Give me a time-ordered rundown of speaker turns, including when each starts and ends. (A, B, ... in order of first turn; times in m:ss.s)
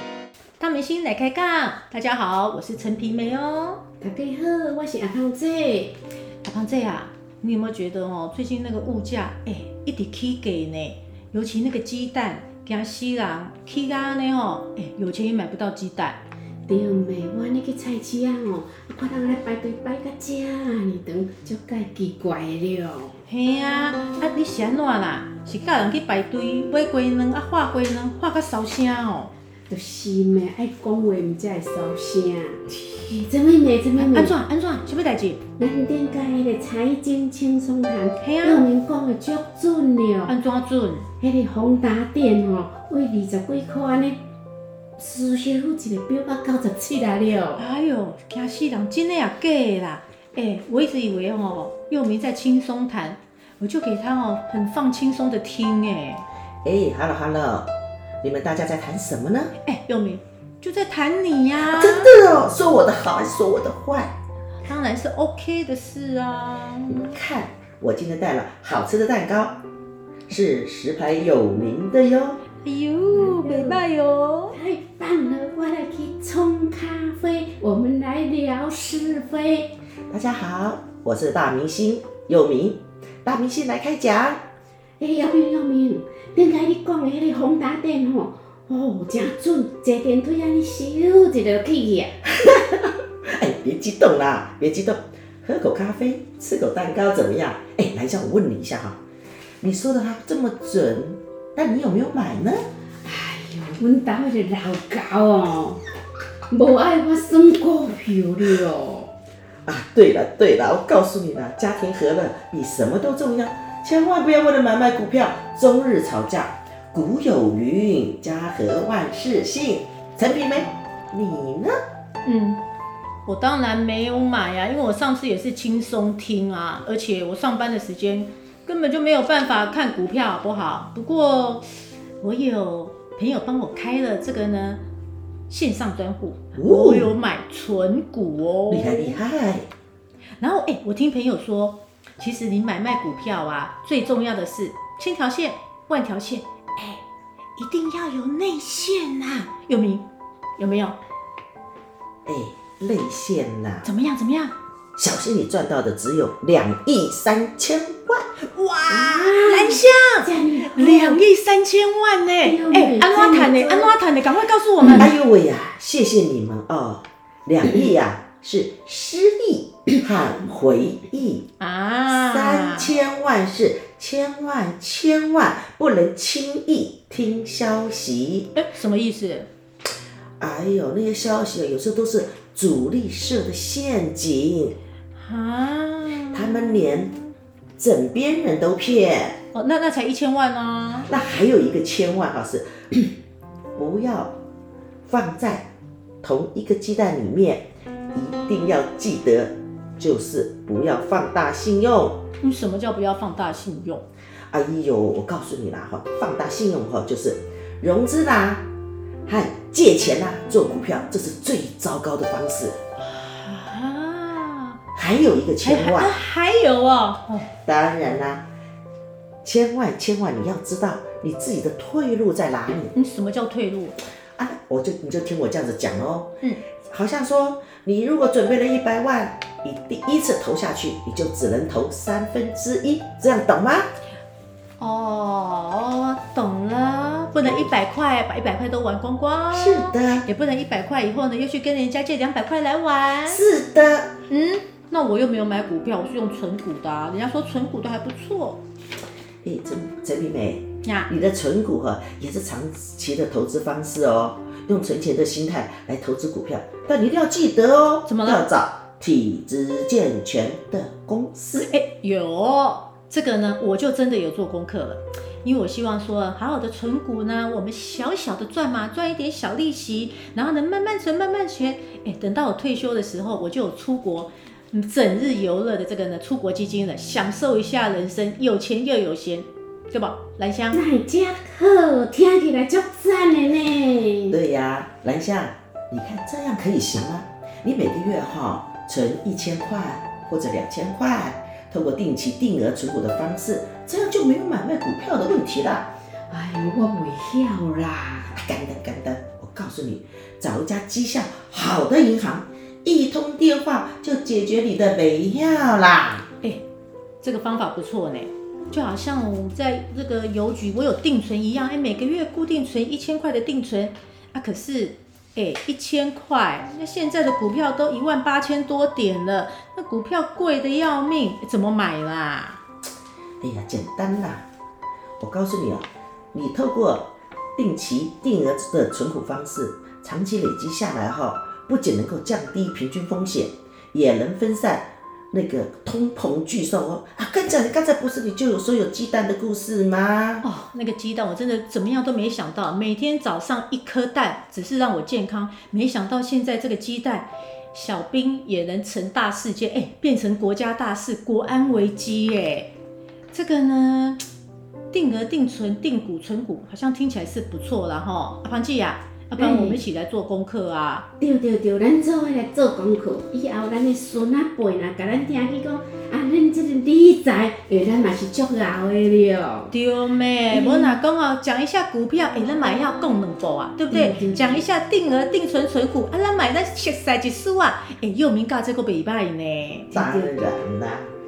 0:00.6-0:03.8 A
0:04.0-0:05.9 B
0:06.4-0:16.2 A
0:16.7-0:23.2 B
0:23.3-0:29.3 A
0:29.7-0:34.3 B
0:34.0-0:35.4 A
0:35.6-0:40.3 B
0:38.2-0:38.7 A
0:40.3-0:41.1 A
0:41.2-0:44.2 B
0:45.0-0:47.6 B
0:47.6-0:56.2 A
0:56.6-0:57.7 C
0:58.2-0:59.5 C
0:59.6-1:02.1 A
1:01.7-1:04.1 C
1:04.6-1:07.1 A
1:06.9-1:09.6 C
1:10.3-1:12.4 C
1:12.6-1:14.5 A
1:13.1-1:13.8 B
1:14.5-1:19.7 B
1:20.1-1:24.4 C
1:25.0-1:32.2 B
1:32.4-1:39.0 C
1:39.6-1:42.6 C
1:43.0-1:45.8 B
1:46.5-1:49.1 B
1:49.6-2:01.7 C
2:02.2-2:02.6 A
2:03.2-2:11.6 A
2:12.2-2:14.8 A
2:15.5-2:19.2 A
2:16.6-2:17.1 C
2:18.7-2:19.7 C
2:20.4-2:27.0 A
2:27.6-2:30.0 A
2:30.6-2:31.0 A
2:32.2-2:33.9 C
2:33.8-2:34.5 A
2:35.0-2:38.3 C
2:38.4-2:45.1 A
2:38.9-2:41.2 B
2:42.4-2:43.9 B
2:44.9-2:51.5 C
2:51.6-2:52.9 A
2:52.1-2:58.5 C
2:58.5-2:59.5 A
3:00.4-3:04.8 C
3:05.2-3:07.3 A
3:06.3-3:07.1 C
3:07.8-3:09.4 C
3:09.5-3:11.1 A
3:11.1-3:13.1 C
3:13.8-3:14.3 C
3:15.0-3:15.7 C
3:16.2-3:22.2 C
3:22.4-3:24.0 A
3:24.5-3:28.7 C
3:29.2-3:32.8 C
3:33.0-3:34.8 A
3:34.9-3:36.2 C
3:35.6-3:37.5 A
3:37.6-3:38.4 C
3:39.4-3:42.9 C
3:42.9-3:44.0 A
3:44.4-3:46.3 C
3:46.9-3:53.9 C
3:54.8-4:03.4 A
3:57.4-3:57.7 C
3:59.5-4:00.2 C
4:03.3-4:04.1 C
4:04.3-4:08.6 A
4:09.4-4:21.7 C
4:10.8-4:11.1 A
4:18.0-4:18.4 A
4:21.6-4:40.8 A
4:40.7-4:44.4 B
4:44.3-4:55.9 C
4:56.3-4:58.4 B
4:58.3-5:06.3 C
5:07.2-5:22.6 A
5:23.4-5:24.4 C
5:25.2-5:40.4 C
5:40.4-5:52.7 A
5:53.3-5:54.2 A
5:54.9-6:01.0 A
5:59.4-5:59.8 B
6:01.2-6:09.7 B
6:09.7-6:20.0 A
6:10.5-6:11.0 B
6:13.9-6:14.6 B
6:19.9-6:21.1 C
6:19.9-6:20.5 B